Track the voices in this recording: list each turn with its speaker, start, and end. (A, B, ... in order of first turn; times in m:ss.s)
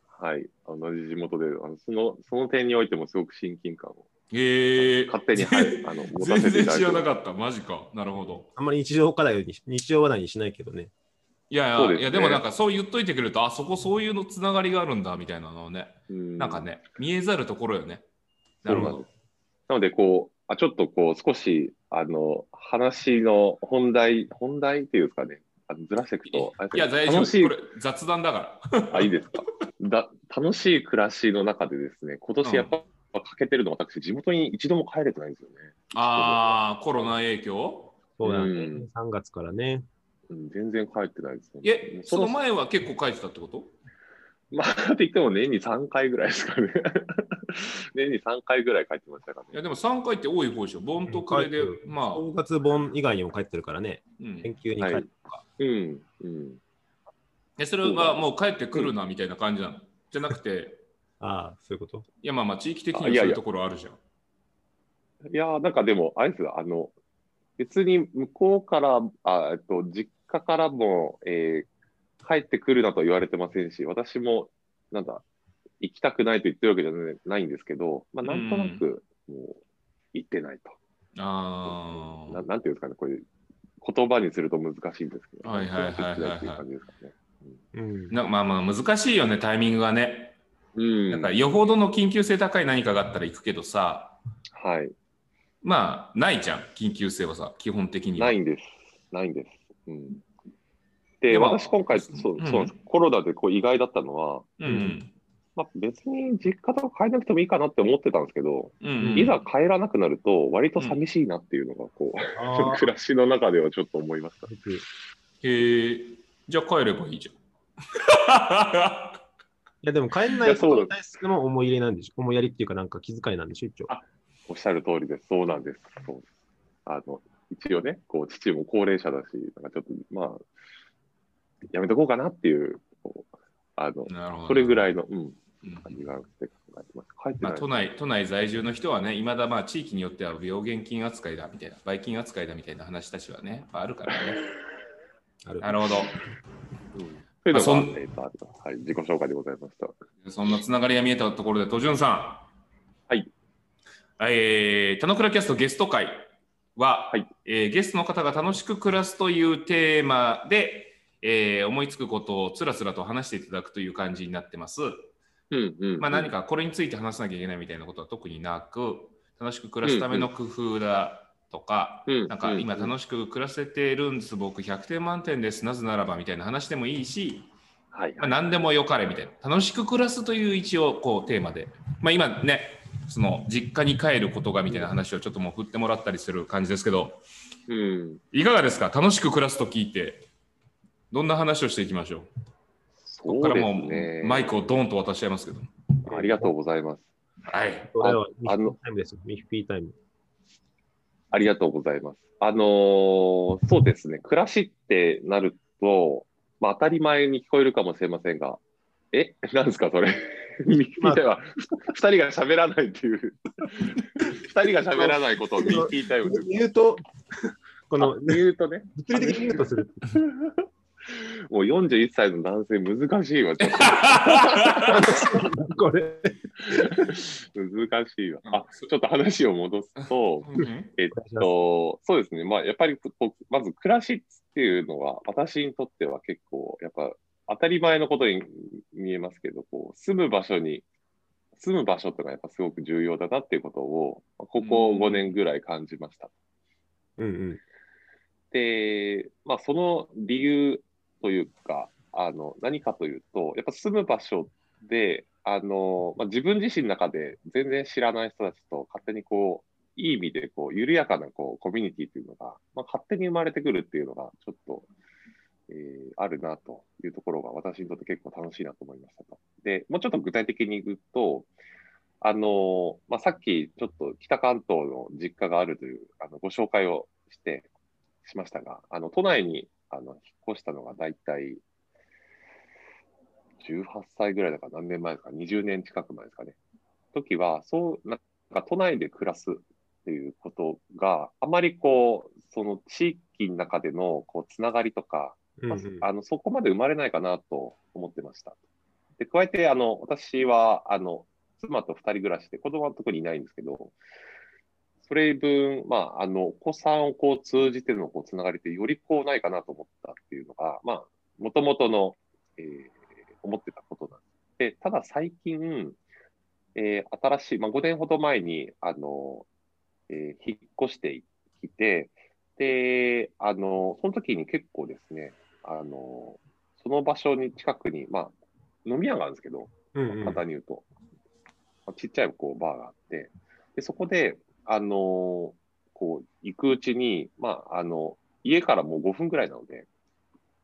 0:00.1-0:04.1 A
0:04.3-0:08.5 B
0:04.8-0:07.1 A
0:08.6-0:10.9 C
0:11.5-0:18.0 B
0:11.7-0:12.4 A
0:16.1-0:16.7 A
0:18.6-0:19.0 B
0:18.6-0:19.1 A
0:18.7-0:19.0 C
0:19.7-0:27.6 A
0:26.3-0:29.1 B
0:28.9-0:36.5 A
0:32.4-0:32.7 B
0:35.9-0:38.0 B
0:38.2-0:39.8 C
0:38.2-0:38.8 A
0:40.3-0:42.4 A
0:41.6-0:43.7 B
0:44.5-0:49.6 A
0:49.5-0:52.2 B
0:51.1-0:55.4 C
0:54.2-0:54.5 B
0:54.8-0:55.0 A
0:55.6-0:56.6 A
0:57.6-1:00.8 B
0:57.8-0:58.2 A
1:01.2-1:02.0 C
1:02.2-1:04.0 B
1:02.9-1:03.4 A
1:05.3-1:06.9 A
1:07.6-1:11.7 A
1:12.2-1:15.2 A
1:15.8-1:19.6 A
1:18.2-1:18.8 B
1:20.1-1:20.8 A
1:21.2-1:22.4 B
1:21.6-1:23.2 A
1:23.8-1:27.6 A
1:25.4-1:26.6 B
1:27.7-1:28.1 C
1:28.1-1:30.4 B
1:30.8-1:31.3 A
1:31.1-1:34.2 B
1:34.5-1:34.9 A
1:35.6-1:38.4 B
1:38.2-1:40.2 A
1:41.2-1:44.5 A
1:41.3-1:42.7 B
1:44.6-1:45.1 B
1:44.6-1:45.0 C
1:45.6-1:54.5 A
1:48.8-1:49.4 B
1:49.0-1:49.3 C
1:52.4-1:52.9 C
1:54.5-1:54.8 C
1:55.4-1:57.4 B
1:57.9-1:59.2 B
1:59.8-2:03.9 C
2:00.4-2:00.9 A
2:03.9-2:06.3 A
2:06.8-2:10.4 A
2:11.7-2:17.9 A
2:14.1-2:14.9 B
2:15.6-2:16.1 B
2:17.4-2:24.5 B
2:25.4-2:25.9 C
2:25.6-2:26.2 B
2:26.9-2:29.9 A
2:27.5-2:28.0 B
2:30.2-2:32.5 B
2:34.2-2:45.1 B
2:45.5-2:46.3 A
2:46.0-2:57.5 B
2:49.8-2:50.3 A
2:52.1-2:52.9 A
2:57.9-2:58.4 A
2:58.2-3:07.2 B
3:07.7-3:08.2 A
3:08.3-3:10.2 B
3:11.1-3:12.3 B
3:13.0-3:14.6 A
3:13.2-3:15.7 B
3:16.0-3:17.1 A
3:16.1-3:16.5 C
3:17.4-3:17.9 B
3:17.9-3:19.9 C
3:18.0-3:18.7 A
3:21.3-3:28.6 A
3:29.1-3:36.6 A
3:34.9-3:38.4 C
3:38.0-3:45.4 A
3:39.0-3:40.2 C
3:43.6-3:45.0 B
3:44.9-3:47.2 C
3:46.6-4:00.8 A
3:48.4-3:48.9 B
3:50.0-3:50.9 B
3:51.1-3:51.5 C
4:01.6-4:06.3 A
4:04.6-4:05.4 B
4:07.2-4:07.6 C
4:08.5-4:24.9 A
4:25.7-4:31.5 A
4:32.2-4:37.7 A
4:38.2-4:41.6 A
4:43.6-4:46.6 A
4:47.1-4:58.6 A
4:55.6-4:56.1 C
4:59.2-5:04.0 A
5:05.0-5:16.0 A
5:16.7-5:19.5 A
5:20.1-5:30.9 A
5:29.9-5:30.4 C
5:31.9-5:39.9 A